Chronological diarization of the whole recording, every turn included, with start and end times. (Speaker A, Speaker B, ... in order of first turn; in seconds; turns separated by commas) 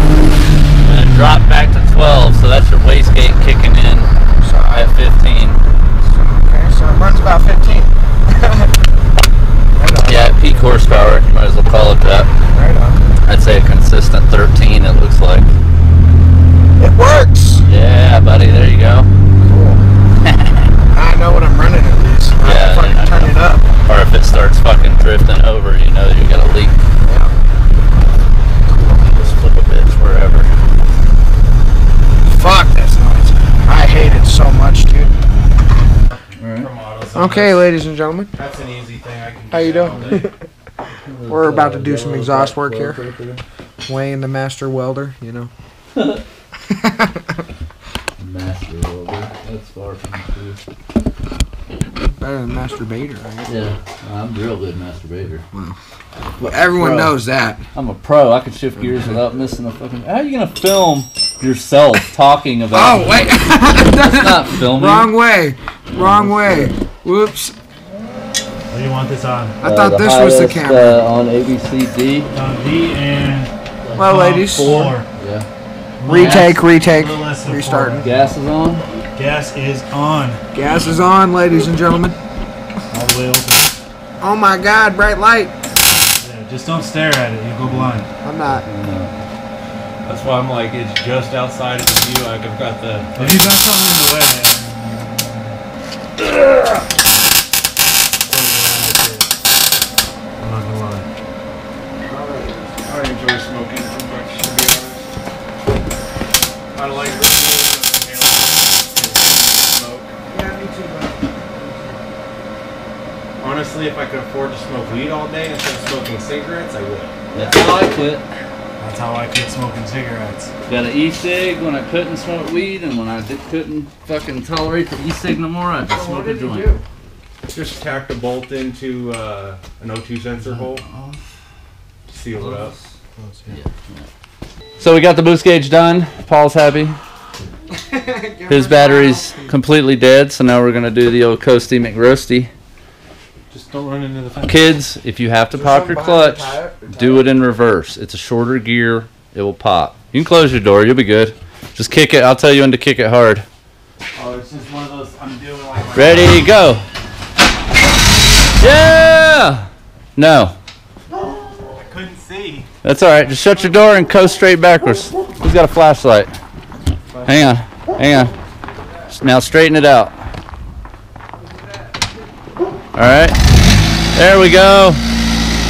Speaker A: 0.8-4.1, Speaker B: 4.4-4.9, Speaker A: 4.7-5.6, Speaker B: 6.0-8.7, Speaker B: 9.8-10.8, Speaker A: 10.0-12.3, Speaker B: 12.5-13.0, Speaker A: 13.2-15.5, Speaker B: 16.8-17.6, Speaker A: 17.6-19.1, Speaker B: 19.4-19.8, Speaker A: 20.2-20.7, Speaker B: 20.9-23.7, Speaker A: 22.4-26.8, Speaker B: 27.0-27.3, Speaker B: 28.6-29.2, Speaker A: 29.1-30.5, Speaker B: 32.2-35.1, Speaker A: 36.3-36.7, Speaker C: 36.5-37.7, Speaker B: 37.1-38.3, Speaker C: 38.4-40.3, Speaker B: 39.5-40.3, Speaker A: 41.0-43.4, Speaker B: 41.3-43.0, Speaker B: 43.9-45.5, Speaker A: 46.0-46.2, Speaker A: 48.2-50.6, Speaker B: 52.2-53.5, Speaker A: 53.5-55.4, Speaker B: 56.4-57.6, Speaker A: 56.4-57.2, Speaker A: 57.7-65.1, Speaker B: 62.7-67.5, Speaker A: 65.9-66.7, Speaker D: 68.7-69.6, Speaker B: 69.6-71.0, Speaker A: 69.6-72.3, Speaker D: 72.3-75.1, Speaker B: 74.0-75.0, Speaker A: 74.6-75.5, Speaker D: 76.0-78.2, Speaker A: 76.1-76.6, Speaker B: 76.1-78.0, Speaker A: 78.0-78.9, Speaker D: 79.1-81.0, Speaker B: 80.5-82.2, Speaker D: 82.9-83.7, Speaker B: 84.2-85.5, Speaker D: 86.2-88.1, Speaker A: 87.6-89.2, Speaker B: 88.2-88.6, Speaker C: 90.0-93.6, Speaker D: 93.2-95.4, Speaker D: 98.2-99.3, Speaker D: 100.4-101.1, Speaker B: 102.0-102.8, Speaker C: 102.8-105.0, Speaker C: 106.7-110.1, Speaker B: 110.3-112.0, Speaker C: 113.4-117.2, Speaker A: 117.3-118.3, Speaker B: 117.3-117.6, Speaker D: 118.8-120.5, Speaker A: 120.7-126.8, Speaker B: 125.9-126.8, Speaker C: 127.5-130.8, Speaker A: 130.5-131.2, Speaker C: 132.1-132.7, Speaker A: 132.4-132.9, Speaker D: 133.2-133.6, Speaker A: 133.5-134.1, Speaker A: 134.8-137.0, Speaker B: 137.9-139.4, Speaker A: 138.5-142.5, Speaker C: 143.5-144.5, Speaker A: 144.4-153.4, Speaker B: 145.5-147.3, Speaker D: 154.1-156.4, Speaker A: 155.9-156.8, Speaker A: 158.6-160.6, Speaker D: 161.8-162.7, Speaker A: 162.8-166.3, Speaker A: 167.2-168.3, Speaker A: 169.1-170.2, Speaker A: 172.9-173.4, Speaker A: 174.1-175.0